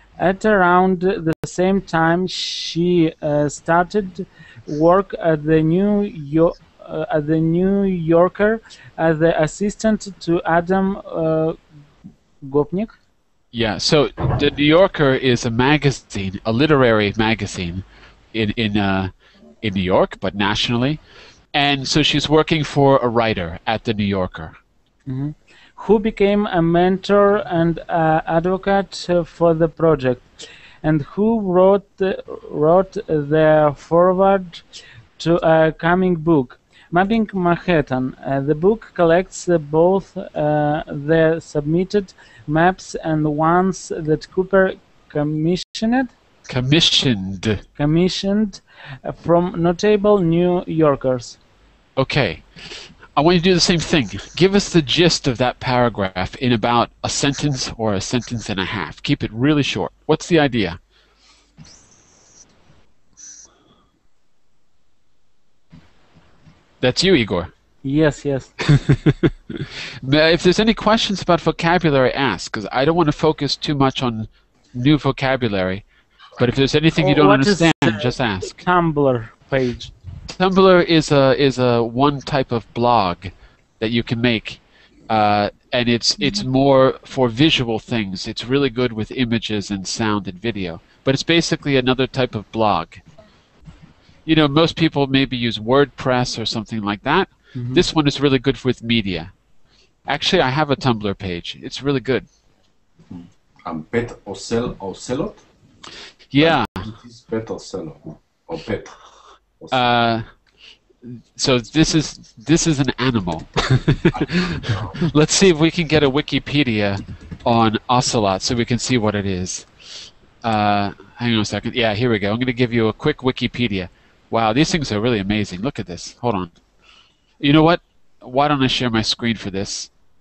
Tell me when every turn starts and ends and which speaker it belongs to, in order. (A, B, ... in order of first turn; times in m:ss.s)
0:00.2-0:11.6 A
0:12.4-0:12.9 A
0:13.5-0:21.0 B
0:21.5-0:24.6 B
0:25.1-0:34.6 A
0:35.2-0:46.1 A
0:46.5-0:47.6 B
0:47.8-0:51.4 A
0:52.0-0:52.5 B
0:53.2-1:00.8 B
1:06.8-1:07.5 B
1:07.8-1:08.5 A
1:08.7-1:15.8 B
1:16.4-1:18.6 B
1:17.0-1:19.9 A
1:20.3-1:33.0 B
1:34.2-1:39.3 B
1:37.6-1:37.8 A
1:40.1-1:42.3 B
1:43.1-1:45.4 C
1:46.3-1:46.9 B
1:46.4-1:48.9 C
1:49.6-1:49.8 C
1:49.7-1:50.2 B
1:51.0-2:06.5 B
1:54.1-1:55.0 C
2:07.4-2:09.9 B